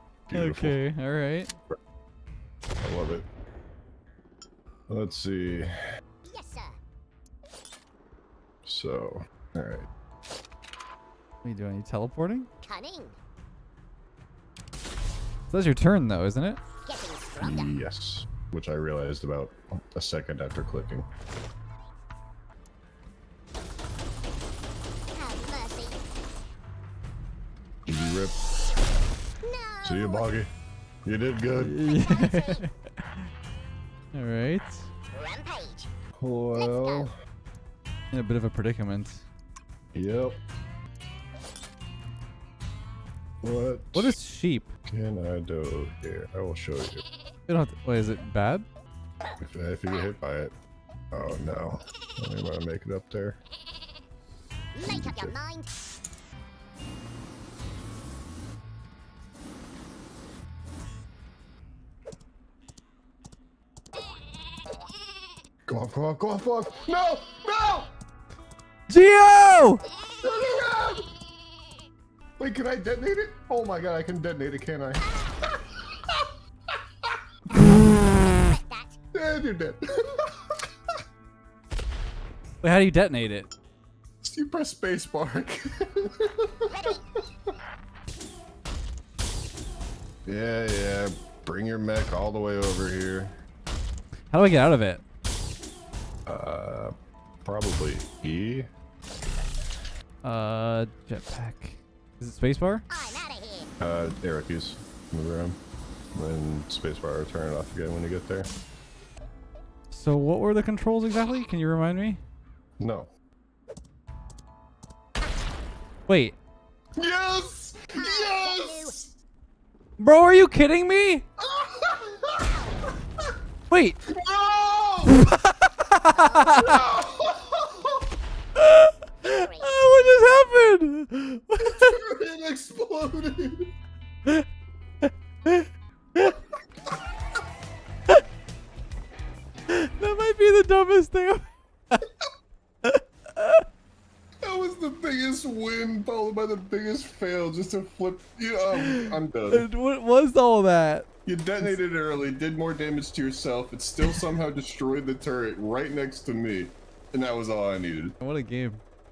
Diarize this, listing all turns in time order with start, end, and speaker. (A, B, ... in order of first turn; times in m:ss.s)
0:00.3-0:00.8 A
0:00.3-0:01.5 B
0:02.8-0:03.2 A
0:04.9-0:05.8 A
0:06.2-0:06.8 C
0:08.6-0:09.9 A
0:11.4-0:12.5 B
0:12.6-0:13.2 C
0:15.5-0:16.6 B
0:16.8-0:17.8 C
0:17.4-0:21.1 A
0:25.1-0:26.0 C
0:27.8-0:28.4 A
0:29.4-0:30.3 C
0:29.8-0:30.5 A
0:31.0-0:31.8 A
0:31.6-0:33.2 B
0:31.9-0:32.6 C
0:34.1-0:34.9 B
0:35.1-0:35.9 C
0:36.2-0:37.1 A
0:36.5-0:37.1 C
0:38.1-0:39.2 B
0:39.9-0:40.4 A
0:43.4-0:44.2 A
0:43.9-0:44.7 B
0:44.9-0:47.0 A
0:47.5-0:48.6 B
0:49.4-0:50.5 A
0:51.1-0:53.4 A
0:54.7-0:55.7 C
0:54.8-0:55.4 A
1:05.7-1:07.9 A
1:08.9-1:09.8 B
1:10.2-1:11.0 A
1:12.4-1:16.3 A
1:17.5-1:18.4 B
1:18.1-1:19.0 C
1:19.1-1:20.4 A
1:22.6-1:23.5 B
1:24.2-1:27.0 A
1:26.7-1:27.0 C
1:30.2-1:33.4 A
1:34.3-1:35.0 B
1:36.2-1:38.7 A
1:40.2-1:42.8 B
1:42.9-1:43.7 C
1:43.8-1:45.6 A
1:46.1-1:48.5 A
1:49.9-1:52.2 B
1:52.8-1:53.1 A
1:56.1-1:56.4 B
1:57.0-1:59.1 A
1:57.9-1:59.0 C
2:00.0-2:01.2 B
2:01.4-2:02.5 A
2:02.4-2:02.8 C
2:03.7-2:04.0 B
2:04.1-2:05.3 A
2:05.0-2:06.8 B
2:06.2-2:08.0 A
2:08.6-2:12.0 B
2:09.3-2:09.8 C
2:11.6-2:13.7 A
2:15.0-2:16.3 B
2:19.7-2:22.0 B
2:22.8-2:23.6 B
2:24.4-2:29.7 A
2:28.7-2:31.1 B
2:31.2-2:38.2 A
2:38.2-2:38.8 B